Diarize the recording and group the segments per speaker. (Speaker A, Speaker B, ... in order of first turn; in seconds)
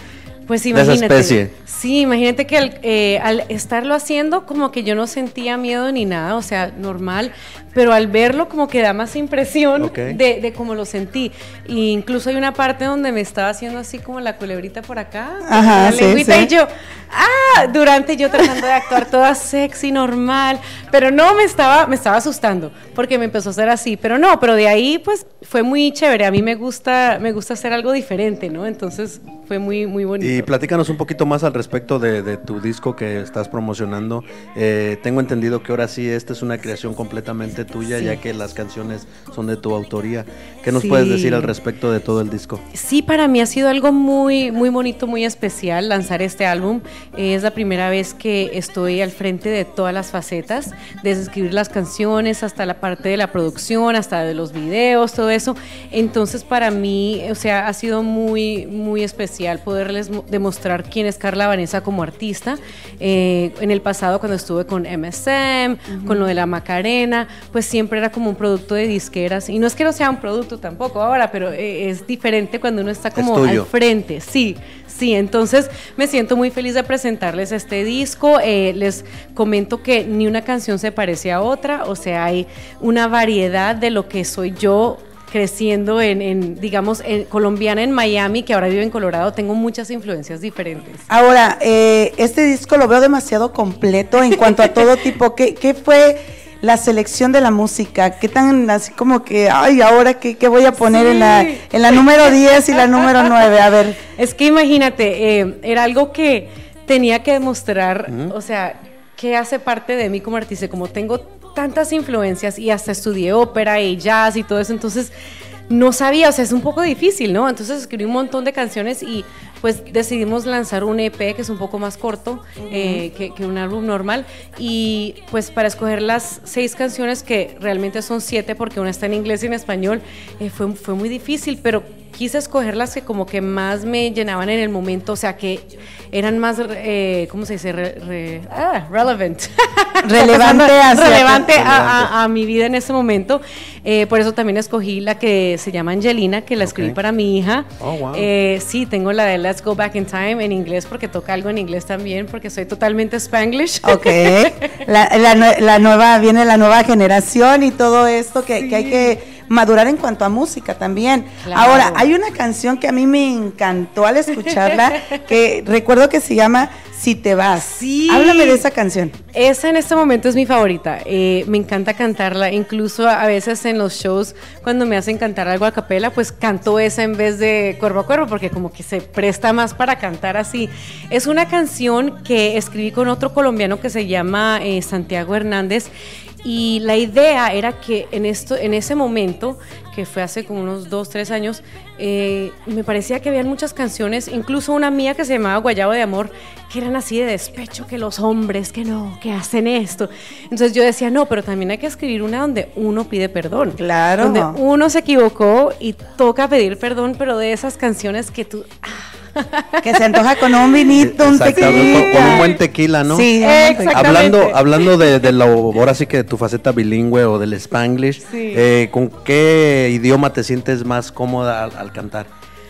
Speaker A: 0.5-30.5, 40.7-41.5, 42.7-91.0, 100.8-101.7, 104.2-115.1, 115.7-154.8, 158.5-159.1, 161.4-162.1, 164.4-165.1, 167.6-168.6, 169.3-185.9, 186.4-210.1, 211.5-212.6, 213.4-215.1, 218.3-218.7
Speaker B: 0.7-1.5, 9.8-10.2, 30.2-42.6, 73.2-73.7, 108.1-108.3, 141.5-142.1, 146.6-147.0, 147.8-148.3, 210.9-213.3, 213.9-222.3
Speaker C: 15.4-16.5, 65.9-66.3, 91.1-104.0, 122.6-123.0, 140.0-141.6, 153.8-169.2, 203.8-204.6, 209.8-212.5, 213.1-214.2